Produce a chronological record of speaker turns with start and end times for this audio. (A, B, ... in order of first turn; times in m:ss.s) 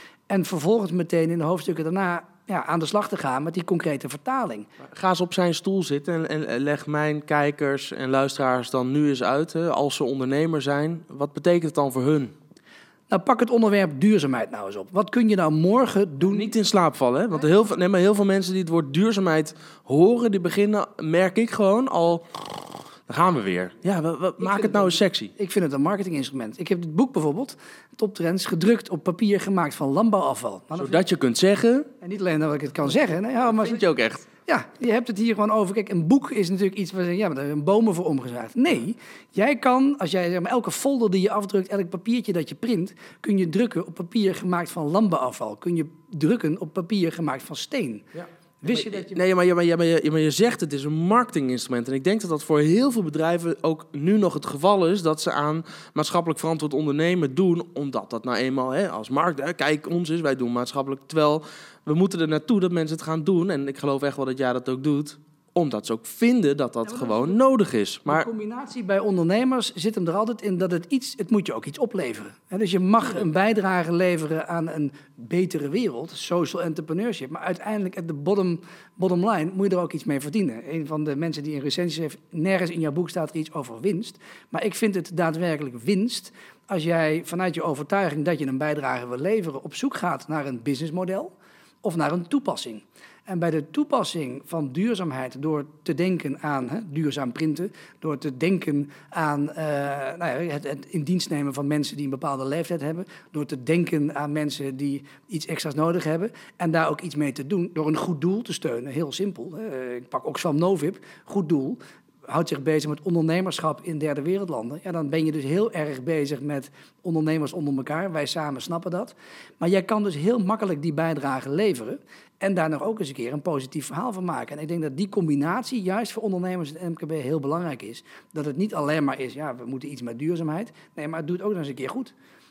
0:00.3-0:04.7 A
0:04.8-0:12.3 B
0:13.1-0:16.5 A
0:16.2-0:25.3 B
0:24.4-0:31.0 A
0:30.8-0:31.9 B
0:32.0-0:33.8 A
0:33.4-0:34.3 B
0:34.5-0:48.1 A
0:48.2-1:08.3 B
0:48.6-0:49.2 A
1:06.9-1:07.4 A
1:08.1-2:12.1 A